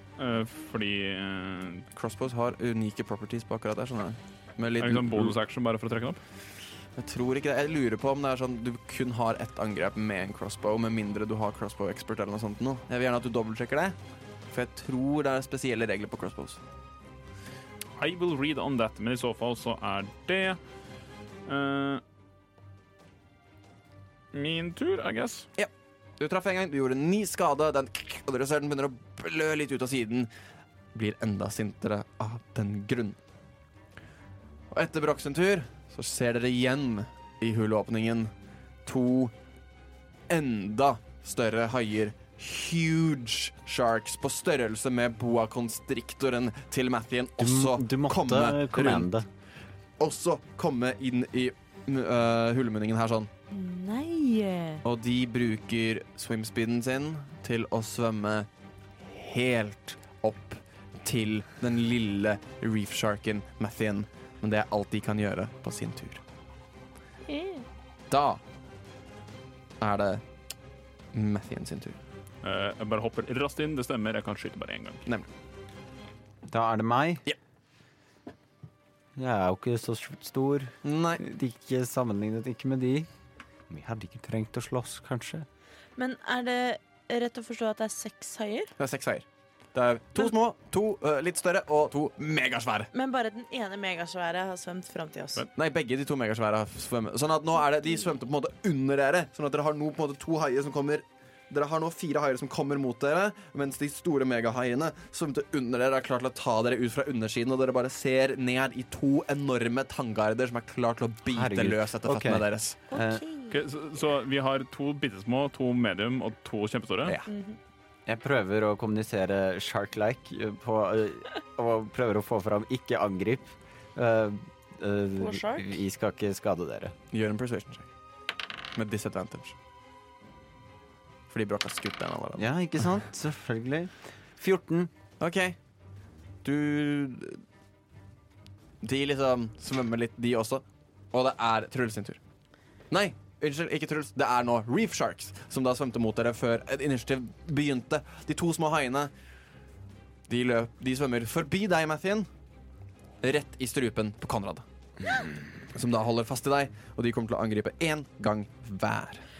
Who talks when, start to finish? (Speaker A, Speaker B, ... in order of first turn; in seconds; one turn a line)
Speaker A: 0.2-1.9
Speaker B: 1.9-5.3
Speaker A: 4.8-6.2
Speaker B: 7.0-13.9
Speaker B: 14.5-16.6
Speaker A: 18.0-20.6
Speaker A: 21.4-22.0
Speaker A: 24.3-25.5
Speaker B: 25.6-30.3
Speaker B: 30.9-33.2
Speaker B: 34.7-38.3
Speaker B: 38.8-39.3
Speaker B: 40.3-49.1
Speaker C: 47.4-49.3
Speaker B: 50.0-53.3
Speaker D: 53.5-54.8
Speaker B: 54.8-58.5
Speaker B: 59.0-66.2
Speaker D: 67.3-67.7
Speaker B: 68.1-68.4
Speaker B: 69.8-70.2
Speaker B: 71.1-72.0
Speaker A: 72.4-75.0
Speaker C: 76.5-77.2
Speaker C: 79.2-83.1
Speaker B: 80.8-81.2
Speaker C: 83.7-85.5
Speaker D: 86.0-88.7
Speaker B: 88.8-92.9
Speaker D: 92.9-95.4
Speaker B: 95.5-112.8
Speaker C: 111.3-113.2
Speaker D: 112.9-113.5
Speaker A: 113.5-117.2
Speaker B: 117.0-117.3
Speaker D: 117.3-117.6
Speaker C: 118.0-126.9
Speaker D: 125.2-125.8
Speaker B: 127.1-127.9
Speaker B: 128.7-129.5
Speaker B: 131.3-132.5
Speaker C: 132.4-134.9
Speaker B: 135.2-135.6
Speaker B: 136.4-137.4
Speaker B: 138.8-142.2
Speaker B: 142.9-149.1
Speaker B: 150.3-152.3
Speaker B: 153.2-154.6
Speaker B: 155.7-159.2